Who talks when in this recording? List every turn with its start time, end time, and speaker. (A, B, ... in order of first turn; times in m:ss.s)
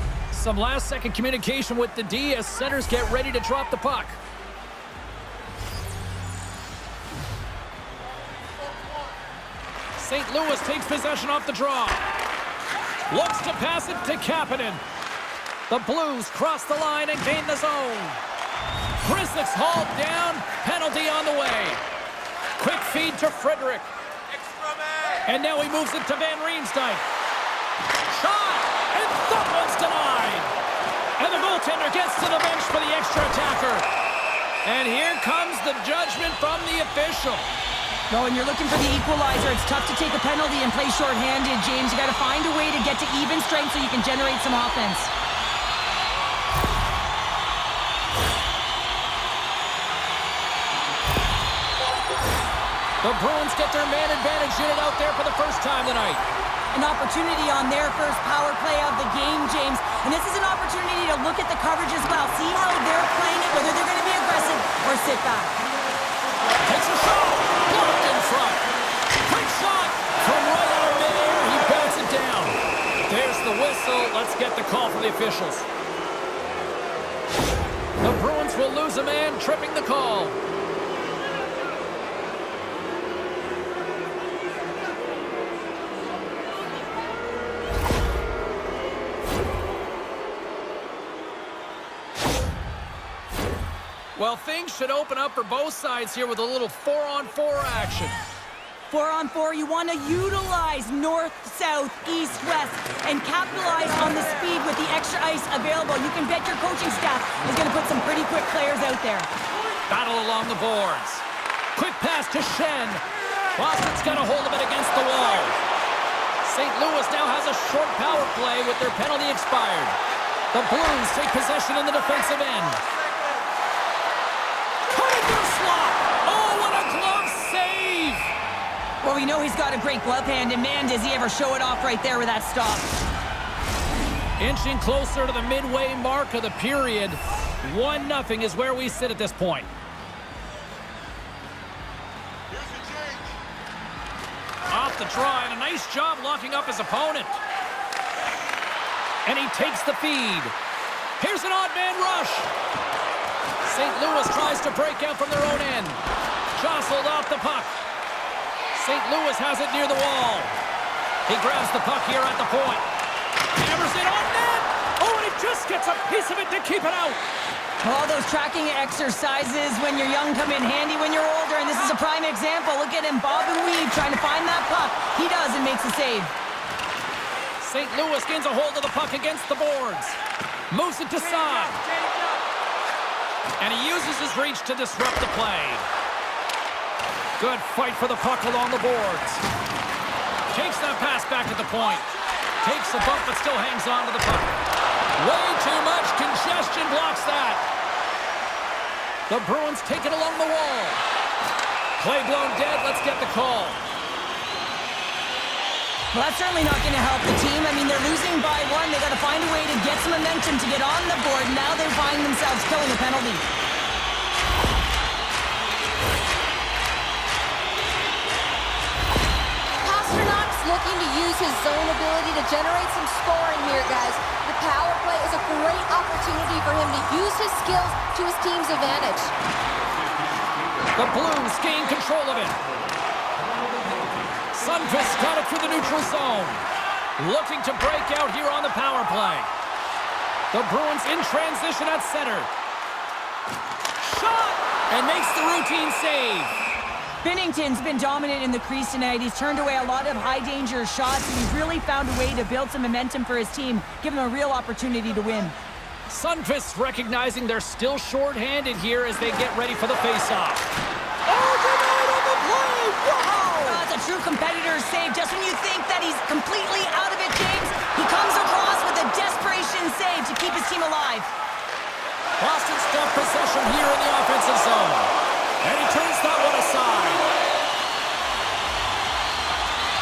0:00.3-0:04.2 A
0:10.0-0:12.0 A
0:13.1-0:14.8 A
0:15.7-0:18.2 A
0:19.0-0:21.8 A
0:22.6-0:23.9 A
0:25.3-0:27.0 A
0:28.1-0:30.5 A
0:31.2-0:33.8 A
0:34.6-0:37.5 A
0:38.1-0:45.1 B
0:53.0-0:56.2 A
0:56.7-1:05.6 B
1:06.6-1:08.7 A
1:09.2-1:15.7 A
1:18.0-1:20.4 A
1:34.2-1:38.2 A
1:38.9-1:49.3 B
1:49.9-1:53.0 A
1:53.5-1:55.6 A
1:56.4-2:00.0 A
2:00.5-2:02.8 A
2:04.9-2:08.3 A
2:09.0-2:12.9 B
2:14.4-2:19.7 A
2:24.7-2:27.4 A
2:29.2-2:30.5 A
2:31.2-2:32.5 A
2:33.6-2:36.0 A
2:36.6-2:37.7 A
2:38.7-2:40.6 A
2:41.3-2:42.9 A
2:43.6-2:47.2 A
2:47.8-2:56.3 B
2:57.6-3:00.2 A
3:00.7-3:01.8 A
3:03.6-3:05.8 A
3:07.4-3:09.4 A
3:10.5-3:12.1 A
3:12.6-3:14.6 A
3:15.2-3:17.6 A
3:19.3-3:21.0 A
3:22.0-3:23.8 A
3:26.1-3:33.4 B
3:39.8-3:49.3 C
3:51.0-3:52.6 A
3:54.5-3:56.6 A
3:57.2-3:59.5 A
4:00.5-4:02.5 A
4:04.0-4:06.6 A
4:07.2-4:15.6 B
4:16.1-4:20.7 A
4:21.3-4:23.7 A
4:23.6-4:31.3 B
4:32.4-4:35.1 A
4:35.6-4:37.2 A